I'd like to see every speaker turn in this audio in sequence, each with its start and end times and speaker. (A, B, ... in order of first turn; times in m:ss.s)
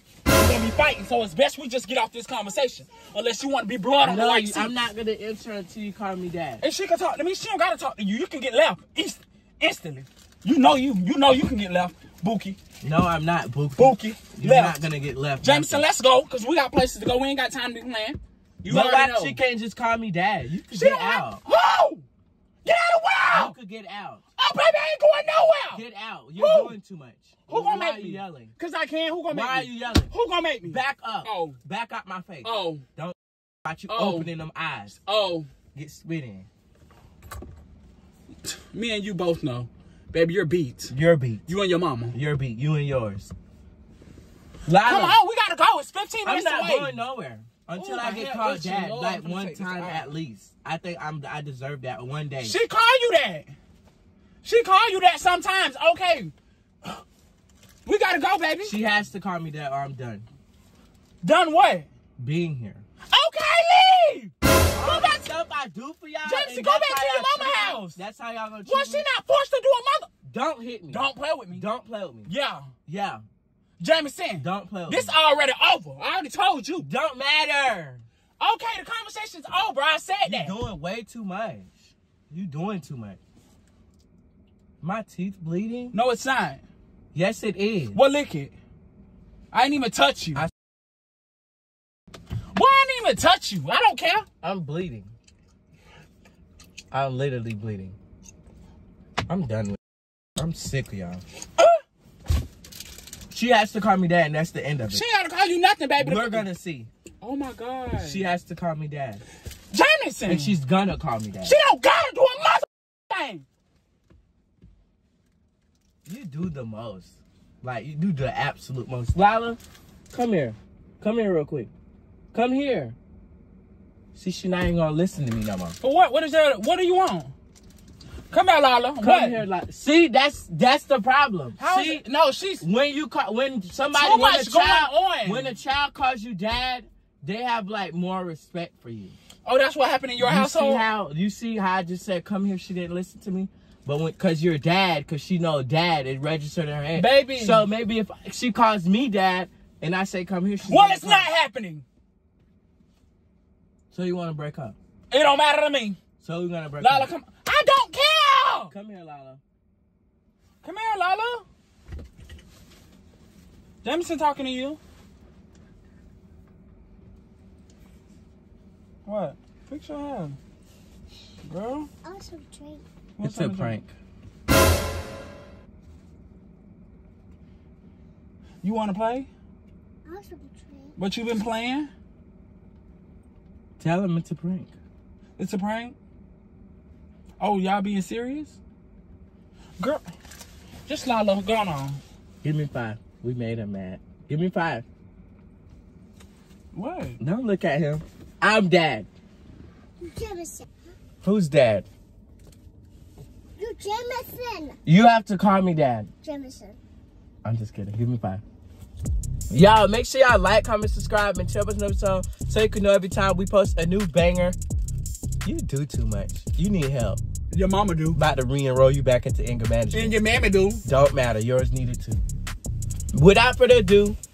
0:00.3-0:04.7 A
0:02.7-0:03.1 B
0:04.0-0:06.6 C
0:06.6-0:12.6 A
0:12.8-0:15.8 C
0:13.8-0:14.8 A
0:15.4-0:19.4 A
0:18.7-0:21.4 C
0:20.7-0:22.0 A
0:22.6-0:23.6 A
0:23.3-0:24.2 C
0:24.4-0:25.8 A
0:25.7-0:28.5 C
0:26.4-0:26.8 A
0:27.5-0:31.6 A
0:29.3-0:30.1 C
0:30.6-0:35.0 C
0:32.4-0:32.8 A
0:33.9-0:34.3 A
0:35.0-0:35.5 A
0:35.8-0:36.5 C
0:38.4-0:41.0 A
0:40.9-0:41.4 C
0:41.5-0:42.2 A
0:42.1-0:43.3 C
0:44.7-0:45.2 C
0:44.8-0:47.0 A
0:46.2-0:52.6 C
0:47.8-0:50.1 A
0:52.4-0:53.5 A
0:54.4-0:56.3 A
0:57.9-0:58.8 A
0:58.6-1:00.2 C
1:01.2-1:01.9 A
1:02.2-1:02.8 C
1:03.1-1:05.2 A
1:04.7-1:09.0 C
1:06.2-1:08.0 A
1:08.6-1:10.1 A
1:10.3-1:12.3 C
1:10.9-1:11.7 A
1:12.3-1:12.7 A
1:12.9-1:13.2 C
1:13.8-1:16.9 A
1:14.4-1:15.1 C
1:16.8-1:18.0 C
1:18.4-1:20.6 A
1:20.2-1:23.2 C
1:24.8-1:26.0 C
1:25.9-1:26.6 A
1:27.1-1:28.0 C
1:27.9-1:28.5 A
1:29.5-1:30.4 A
1:32.5-1:34.3 A
1:34.4-1:35.1 C
1:36.9-1:38.0 C
1:39.3-1:39.8 C
1:40.4-1:41.2 C
1:43.3-1:45.0 C
1:44.9-1:46.5 A
1:46.0-1:46.9 C
1:47.2-1:48.3 A
1:47.9-1:49.2 C
1:49.7-1:50.6 A
1:50.2-1:51.6 C
1:51.4-1:53.4 A
1:56.1-1:59.6 C
2:00.1-2:01.7 C
2:02.3-2:03.0 C
2:04.1-2:05.8 C
2:05.8-2:07.3 A
2:08.3-2:09.4 A
2:09.0-2:12.0 C
2:11.6-2:12.6 A
2:12.6-2:19.2 C
2:13.9-2:15.5 A
2:19.4-2:20.9 A
2:20.2-2:31.3 C
2:26.9-2:27.7 A
2:30.6-2:31.8 A
2:33.9-2:34.8 C
2:35.1-2:36.0 A
2:36.2-2:37.1 C
2:36.8-2:38.7 A
2:38.7-2:39.4 C
2:40.6-2:41.4 A
2:43.8-2:44.8 A
2:49.1-2:50.4 A
2:51.4-2:51.9 A
2:52.0-2:52.8 B
2:53.2-2:53.8 A
2:53.2-2:53.9 C
2:58.6-2:59.3 A
3:00.0-3:01.0 B
3:01.0-3:01.9 A
3:03.8-3:04.7 C
3:05.4-3:06.0 A
3:07.4-3:08.6 A
3:09.8-3:10.0 A
3:10.9-3:12.0 A
3:12.4-3:14.8 C
3:16.7-3:17.2 A
3:17.2-3:19.1 C
3:20.0-3:20.7 B
3:21.2-3:21.9 C
3:23.6-3:24.8 B
3:24.9-3:26.1 C
3:26.2-3:26.8 B
3:27.4-3:28.4 C
3:29.5-3:34.6 C
3:35.4-3:37.2 C
3:37.5-3:38.2 A
3:38.1-3:40.2 C
3:39.9-3:40.8 A
3:40.8-3:42.2 C
3:43.1-3:44.2 C